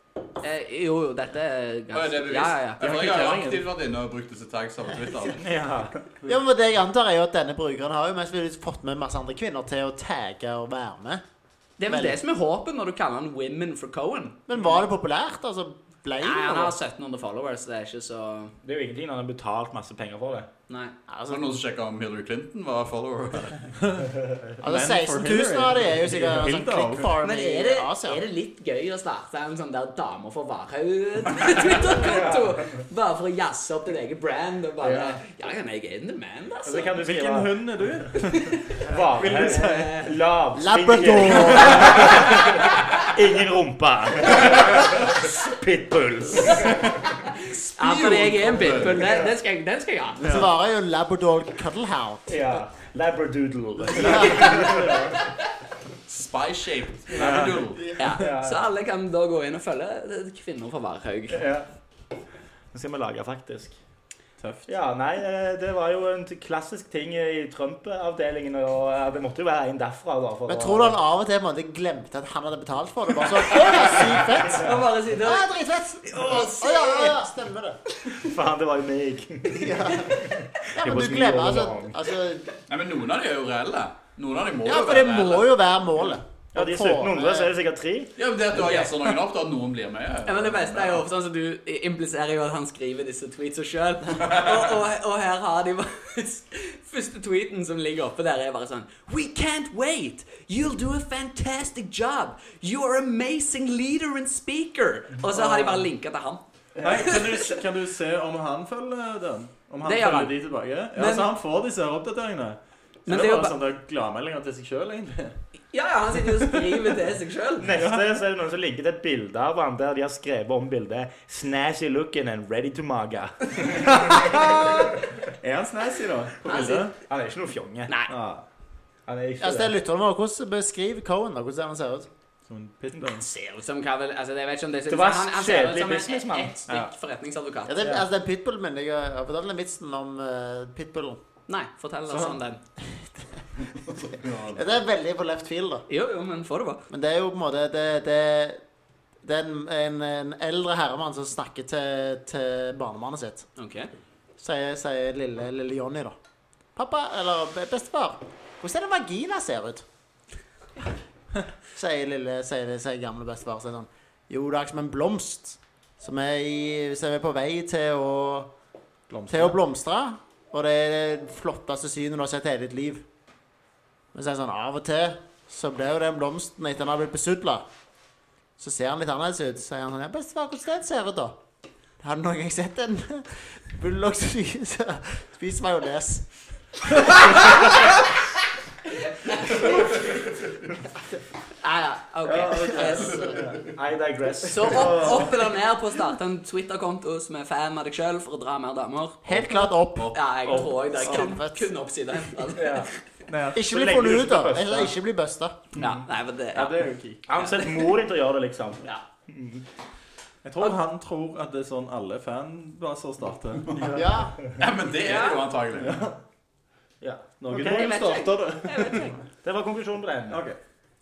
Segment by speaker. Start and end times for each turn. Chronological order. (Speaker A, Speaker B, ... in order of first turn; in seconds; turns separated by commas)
Speaker A: 0.4-3.2, Speaker B: 1.9-5.5, Speaker C: 2.8-3.6, Speaker D: 5.3-6.0, Speaker E: 6.2-11.2, Speaker A: 11.8-14.4, Speaker E: 11.9-12.2, Speaker E: 14.5-16.8, Speaker A: 16.2-18.5, Speaker D: 18.6-20.5, Speaker A: 20.7-20.9, Speaker E: 21.1-21.4, Speaker B: 21.3-23.7, Speaker C: 23.8-27.1, Speaker E: 24.6-28.2, Speaker A: 27.2-37.0, Speaker D: 31.9-32.7, Speaker C: 34.8-35.2, Speaker D: 36.6-37.5, Speaker C: 37.0-40.1, Speaker A: 38.3-40.1, Speaker D: 38.8-46.9, Speaker E: 40.5-42.3, Speaker C: 41.3-42.1, Speaker A: 41.9-43.1, Speaker A: 46.6-50.4, Speaker B: 47.8-49.2, Speaker C: 50.2-50.5, Speaker E: 50.2-52.4, Speaker D: 52.3-55.0, Speaker E: 53.9-55.1, Speaker C: 53.9-55.1, Speaker A: 54.2-54.6, Speaker B: 56.1-57.9, Speaker C: 57.1-57.6, Speaker A: 58.0-61.4, Speaker D: 58.1-58.6, Speaker D: 61.3-61.6, Speaker D: 62.7-63.8, Speaker C: 64.4-64.7, Speaker D: 64.7-71.0, Speaker E: 70.5-77.8, Speaker A: 74.4-75.5, Speaker D: 74.5-74.8, Speaker A: 76.1-77.1, Speaker D: 76.2-77.0, Speaker D: 78.1-82.0, Speaker E: 79.5-82.5, Speaker B: 82.7-85.5, Speaker E: 84.6-87.5, Speaker D: 86.5-88.1, Speaker B: 88.2-91.0, Speaker A: 88.6-88.9, Speaker A: 90.2-107.6, Speaker B: 94.2-94.6, Speaker C: 105.3-105.9, Speaker C: 106.8-115.3, Speaker A: 109.8-110.3, Speaker A: 110.9-111.3, Speaker A: 113.1-113.5, Speaker A: 115.7-117.7, Speaker C: 116.2-116.9, Speaker D: 117.6-124.8, Speaker C: 117.7-118.1, Speaker C: 123.7-126.9, Speaker A: 126.4-126.9, Speaker D: 127.1-127.9, Speaker A: 127.9-128.1, Speaker C: 128.1-128.4, Speaker D: 129.1-129.7, Speaker E: 129.4-132.1, Speaker C: 132.5-133.2, Speaker A: 133.1-137.8, Speaker D: 134.9-136.6, Speaker E: 137.7-141.2, Speaker D: 137.8-138.1, Speaker A: 141.5-142.6, Speaker C: 142.1-142.4, Speaker B: 143.8-144.7, Speaker E: 144.5-145.8, Speaker A: 145.9-146.8, Speaker E: 146.9-148.6, Speaker E: 149.2-153.5, Speaker A: 153.6-153.9, Speaker E: 154.4-156.2, Speaker E: 156.7-159.8, Speaker E: 161.7-168.5, Speaker C: 169.1-169.6, Speaker E: 169.3-173.0, Speaker E: 174.1-177.6, Speaker E: 178.6-181.4, Speaker E: 182.0-186.2, Speaker E: 187.2-187.7, Speaker A: 189.0-190.3, Speaker A: 191.6-193.4, Speaker C: 192.3-193.3, Speaker D: 193.2-195.3, Speaker A: 194.4-202.9, Speaker E: 199.2-201.7, Speaker D: 200.4-201.3, Speaker D: 202.6-202.9, Speaker C: 203.3-203.7, Speaker E: 203.5-205.6, Speaker D: 203.5-204.9, Speaker A: 205.8-206.8, Speaker C: 206.5-207.2, Speaker D: 207.3-209.7, Speaker A: 207.3-207.9, Speaker C: 210.4-213.9, Speaker E: 213.8-214.4, Speaker B: 214.5-216.0, Speaker A: 215.0-215.4, Speaker C: 215.8-216.2, Speaker D: 217.0-218.0, Speaker C: 217.4-219.1, Speaker A: 217.7-219.2, Speaker D: 219.4-220.4, Speaker C: 220.3-220.6